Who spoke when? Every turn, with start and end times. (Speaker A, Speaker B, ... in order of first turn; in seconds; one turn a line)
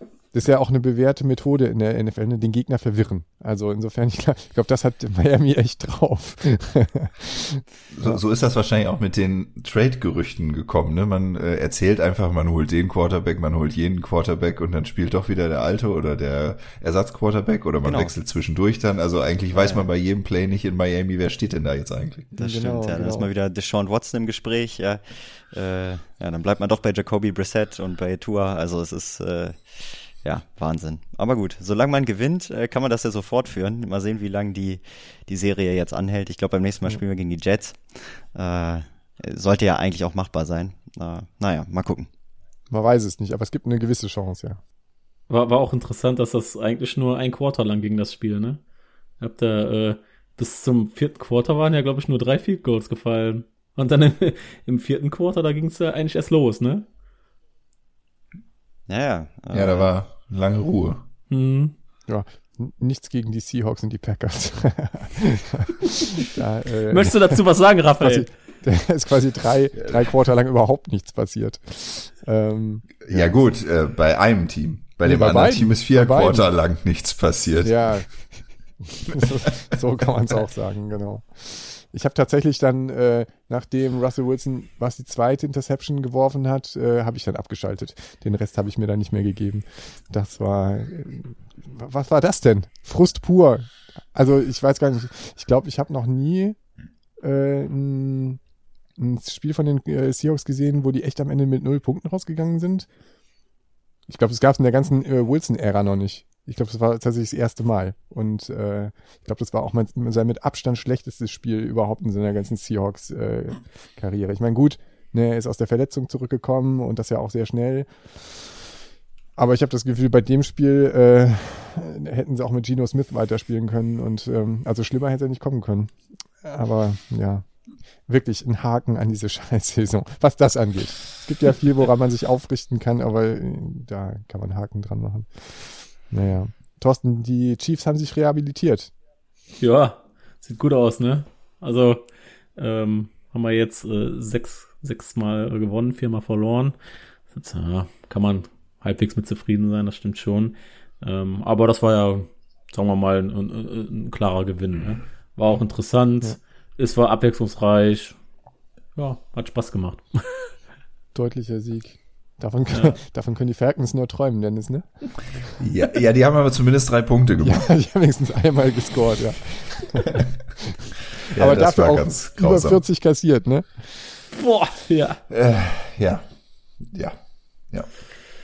Speaker A: 0.3-7.6
Speaker B: 7.9-22.3
Speaker C: 17.8-18.1
Speaker C: 19.5-19.8
Speaker A: 22.4-23.3
Speaker C: 22.4-42.1
Speaker A: 42.7-44.6
Speaker D: 45.3-48.6
Speaker D: 49.2-56.9
Speaker C: 58.9-59.9
Speaker B: 59.5-61.0
Speaker D: 61.3-61.7
Speaker A: 62.1-67.4
Speaker D: 66.9-68.2
Speaker A: 68.0-73.2
Speaker B: 73.0-78.0
Speaker A: 75.0-76.5
Speaker A: 77.6-78.1
Speaker A: 78.8-96.6
Speaker A: 97.2-98.4
Speaker A: 99.0-102.9
Speaker A: 104.1-118.3
Speaker A: 119.4-127.5
Speaker A: 128.1-138.9
Speaker D: 139.6-146.8
Speaker D: 147.3-158.2
Speaker D: 158.9-160.5
Speaker A: 161.1-164.9
Speaker D: 162.7-163.0
Speaker B: 165.6-167.7
Speaker A: 167.4-170.8
Speaker B: 171.3-172.8
Speaker A: 171.3-173.9
Speaker D: 174.3-175.2
Speaker B: 175.3-176.2
Speaker B: 176.8-177.2